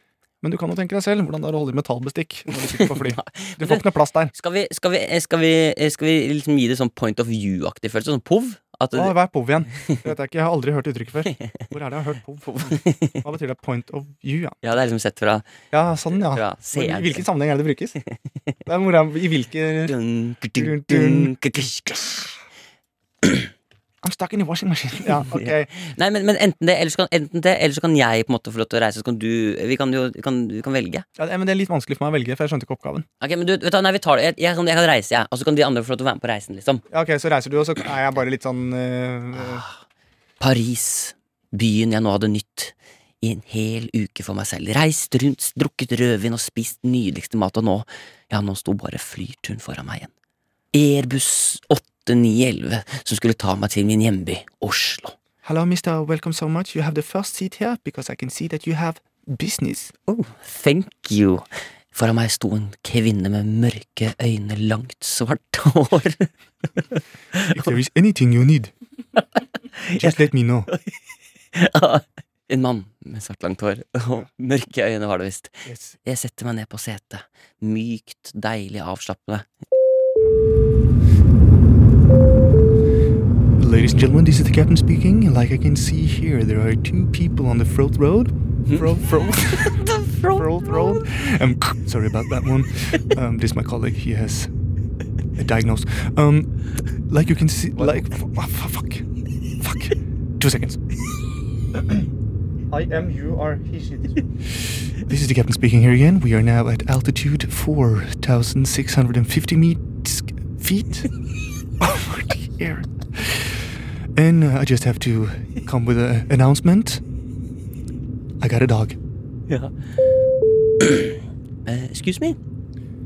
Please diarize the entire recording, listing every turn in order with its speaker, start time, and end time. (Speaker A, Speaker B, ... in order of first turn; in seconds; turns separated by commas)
Speaker A: 0.4-4.3, Speaker B: 2.6-9.1, Speaker A: 8.9-14.6, Speaker B: 12.5-13.2, Speaker B: 14.6-15.4, Speaker A: 15.7-17.9, Speaker B: 16.1-17.2, Speaker A: 18.6-19.9, Speaker B: 19.9-22.2, Speaker A: 20.6-21.6, Speaker A: 24.0-25.7, Speaker B: 25.3-31.0, Speaker A: 31.2-33.0, Speaker B: 33.2-36.8, Speaker A: 36.9-39.6, Speaker B: 39.3-39.8, Speaker B: 40.4-50.1, Speaker B: 50.7-55.1, Speaker A: 55.4-59.9, Speaker B: 60.1-66.3, Speaker B: 66.8-67.7, Speaker A: 67.5-68.7, Speaker B: 69.2-70.8, Speaker A: 69.9-70.7, Speaker B: 71.5-79.5, Speaker A: 75.7-76.0, Speaker A: 83.6-89.8, Speaker B: 89.5-91.1, Speaker A: 90.3-94.5, Speaker A: 95.4-96.5, Speaker A: 97.1-99.0, Speaker B: 97.8-98.1, Speaker A: 99.6-100.8, Speaker A: 101.8-102.1, Speaker A: 102.7-104.2, Speaker A: 105.0-111.1, Speaker A: 111.8-113.6, Speaker A: 114.2-117.0, Speaker A: 118.4-119.0, Speaker B: 120.8-122.4